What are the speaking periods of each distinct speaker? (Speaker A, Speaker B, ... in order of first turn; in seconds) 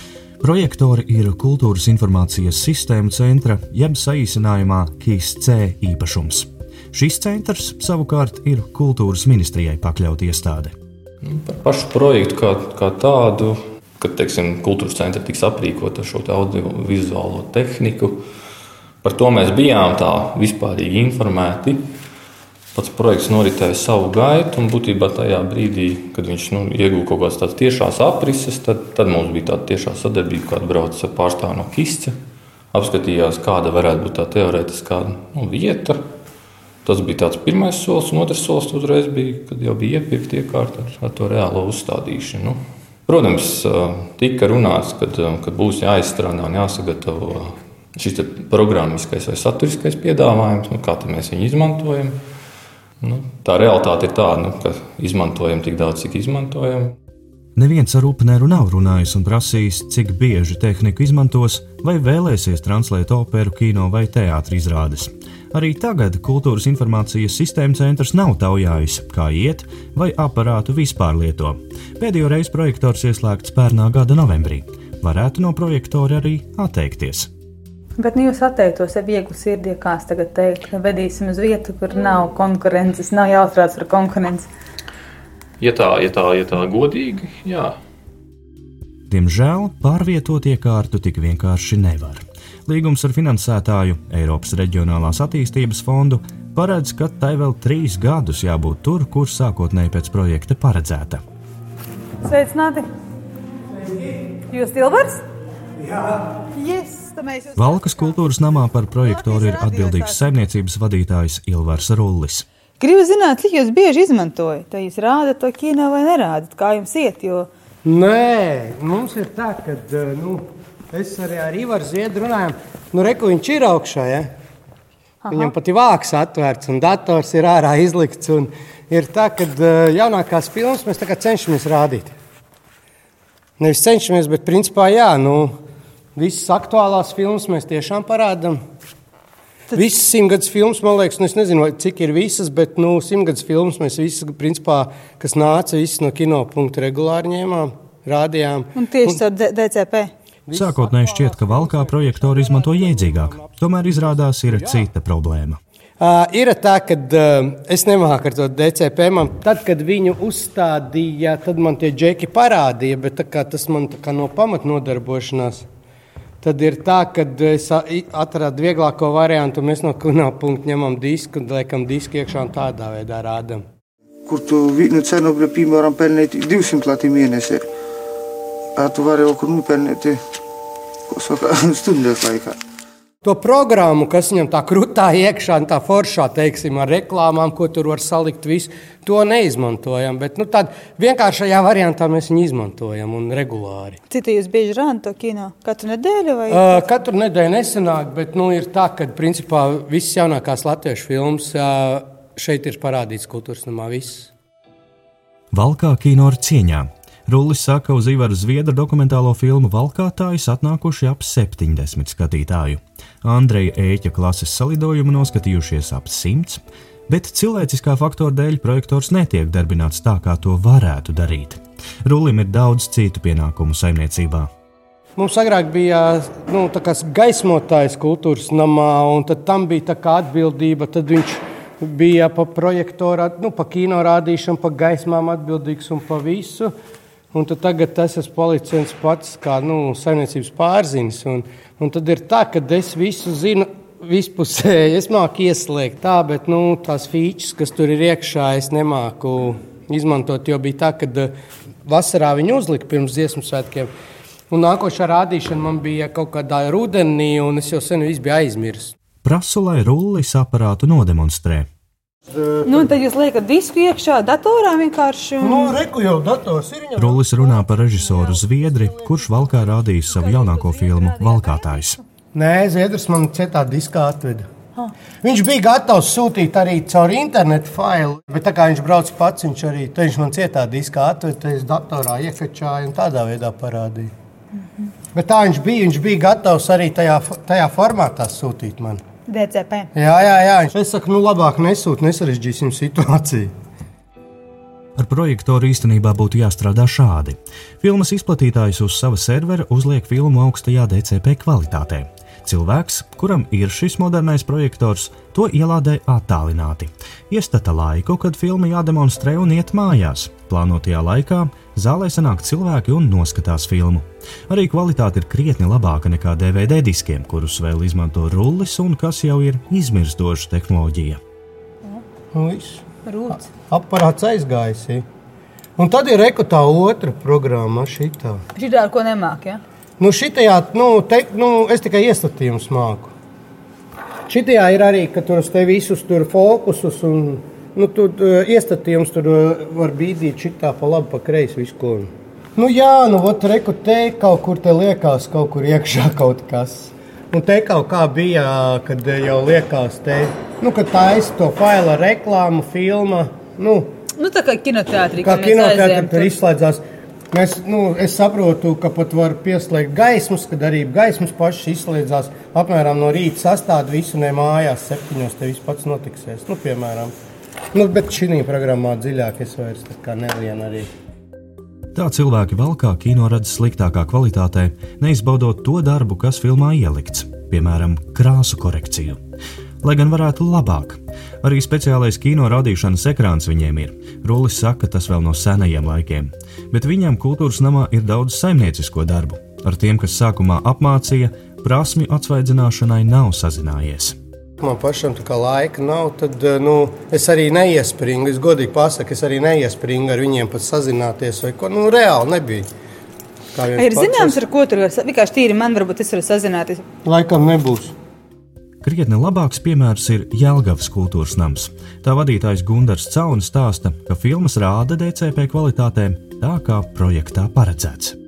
Speaker A: 0.4-10.7, 57.5-77.3, 89.1-101.2, 107.5-112.5, 150.5-155.6, 205.5-224.5, 259.2-261.7, 267.0-272.0, 295.0-321.2, 371.9-379.2, 379.8-394.1, 408.8-418.1
Speaker B: 11.2-18.2, 19.0-21.9, 22.7-32.2, 32.7-36.0, 36.8-52.2, 53.0-57.0, 85.6-87.8
Speaker C: 78.0-84.5, 102.2-102.9, 104.5-105.2, 106.5-108.2, 109.0-110.2, 112.8-117.5, 125.2-125.5, 148.8-150.1, 194.1-196.8, 262.6-265.8, 270.1-271.8, 289.3-289.9, 323.1-323.5, 328.5-329.6, 354.2-356.3, 403.8-406.8
Speaker D: 117.8-124.3, 125.3-132.1, 133.6-135.6, 136.2-138.6, 139.7-149.2, 150.5-154.8, 156.0-165.7, 166.4-173.6, 183.2-194.0, 196.5-204.3, 225.2-236.7, 237.3-251.3, 251.8-253.9, 254.5-258.9, 262.3-262.6, 265.4-269.5, 272.3-274.5, 275.2-284.1, 285.1-289.0, 289.9-293.5, 322.3-322.8, 323.6-325.0, 325.8-328.4, 330.0-333.1, 334.3-353.9, 355.2-367.1, 367.7-370.9, 394.6-402.7, 403.5-404.4, 407.0-407.9
Speaker E: 174.2-177.7, 178.8-180.2, 181.1-182.6